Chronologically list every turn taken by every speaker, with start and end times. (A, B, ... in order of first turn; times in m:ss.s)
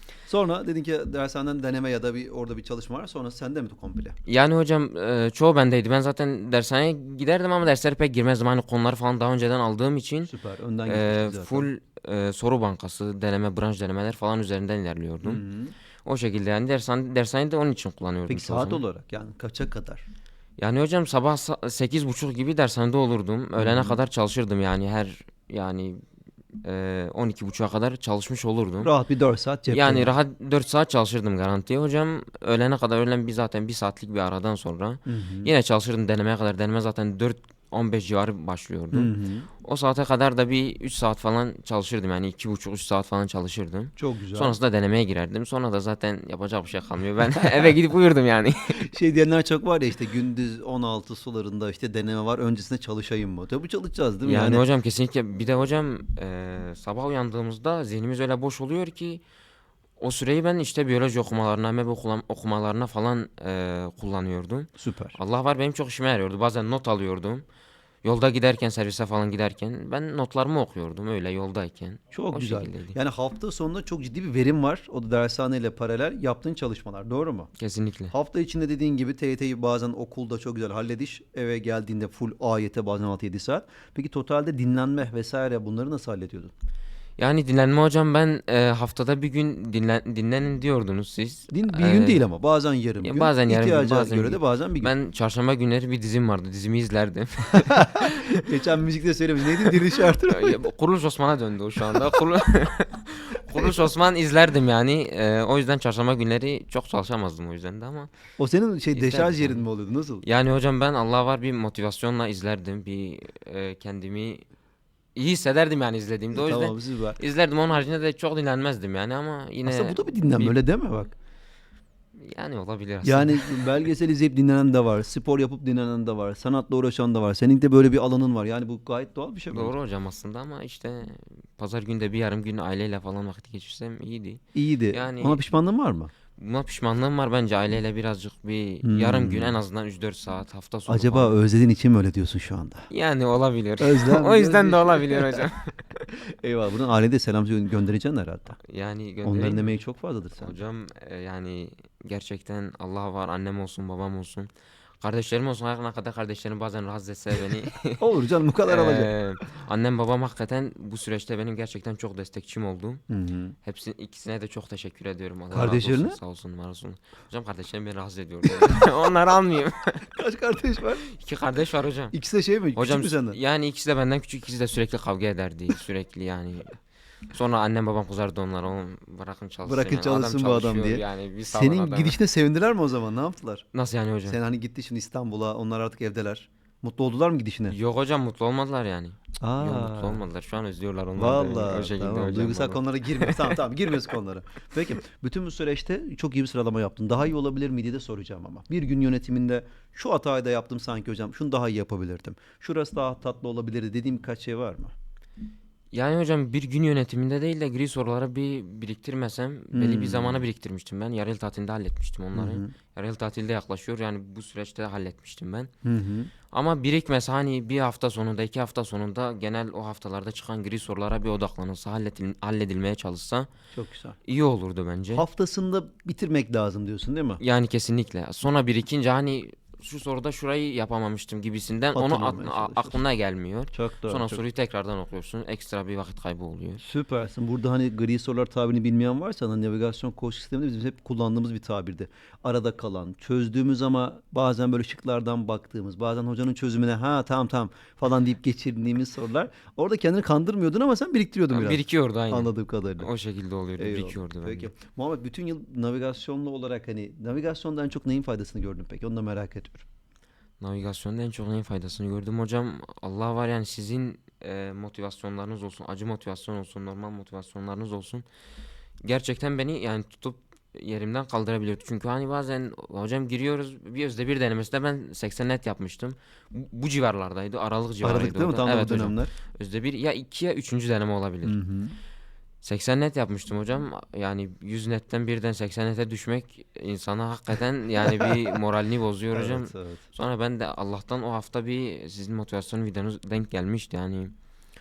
0:00.3-0:04.2 A
0:04.2-0:10.3 B
0:10.2-0:11.7 A
0:10.9-0:15.4 B
0:15.2-0:15.7 A
0:16.0-0:18.8 B
0:18.3-0:20.0 A
0:20.6-0:26.0 B
0:23.6-0:24.0 A
0:26.6-0:28.9 B
0:28.8-0:30.1 A
0:29.7-0:39.1 B
0:35.0-0:35.5 A
0:38.9-0:39.5 A
0:39.6-0:48.8 B
0:44.0-0:44.6 A
0:48.8-0:54.6 A
0:54.2-0:59.2 B
1:00.0-1:07.4 B
1:04.8-1:05.2 A
1:08.0-1:13.0 B
1:12.1-1:17.5 A
1:17.6-1:18.1 B
1:18.1-1:26.5 A
1:27.2-1:32.2 B
1:31.5-1:34.9 A
1:33.0-1:38.4 B
1:37.7-1:40.6 A
1:39.6-1:48.1 B
1:41.9-1:42.2 A
1:43.5-1:43.8 A
1:48.4-1:50.2 A
1:48.9-1:49.6 B
1:50.2-1:54.4 B
1:55.2-2:00.6 B
1:56.3-1:57.2 A
1:59.6-2:01.1 A
2:02.2-2:03.7 B
2:03.0-2:09.8 A
2:09.5-2:14.4 B
2:14.5-2:16.1 A
2:14.9-2:15.4 B
2:16.4-2:21.3 B
2:18.8-2:19.6 A
2:20.9-2:22.9 A
2:22.9-2:26.1 B
2:23.8-2:25.5 A
2:26.3-2:28.6 A
2:28.6-2:29.7 B
2:29.2-2:30.6 A
2:30.4-2:34.5 B
2:35.0-2:38.0 B
2:38.0-2:39.1 A
2:38.6-2:43.0 B
2:43.1-2:43.6 A
2:43.6-2:50.1 B
2:45.5-2:46.2 A
2:48.5-2:48.8 A
2:50.1-2:51.1 A
2:51.0-2:52.1 B
2:52.1-2:53.4 A
2:52.7-2:56.8 B
2:57.3-3:02.2 B
2:59.6-3:03.7 A
3:03.7-3:04.4 B
3:04.3-3:07.7 A
3:07.7-3:13.6 B
3:09.4-3:10.2 A
3:11.1-3:24.9 A
3:25.9-3:35.7 B
3:29.7-3:30.4 A
3:32.3-3:32.7 A
3:35.8-3:36.3 A
3:36.5-3:43.5 B
3:43.7-3:44.2 A
3:44.2-3:45.2 B
3:45.1-3:47.4 A
3:47.4-3:56.8 B
3:51.9-3:53.0 A
3:53.7-3:54.4 A
3:56.8-4:13.1 A
4:11.5-4:14.7 B
4:13.8-4:19.8 A
4:20.6-4:28.2 B
4:29.0-4:41.6 B
4:38.0-4:39.3 A
4:41.4-4:42.0 A
4:42.6-4:54.3 B
4:48.0-4:48.6 A
4:49.3-4:50.0 A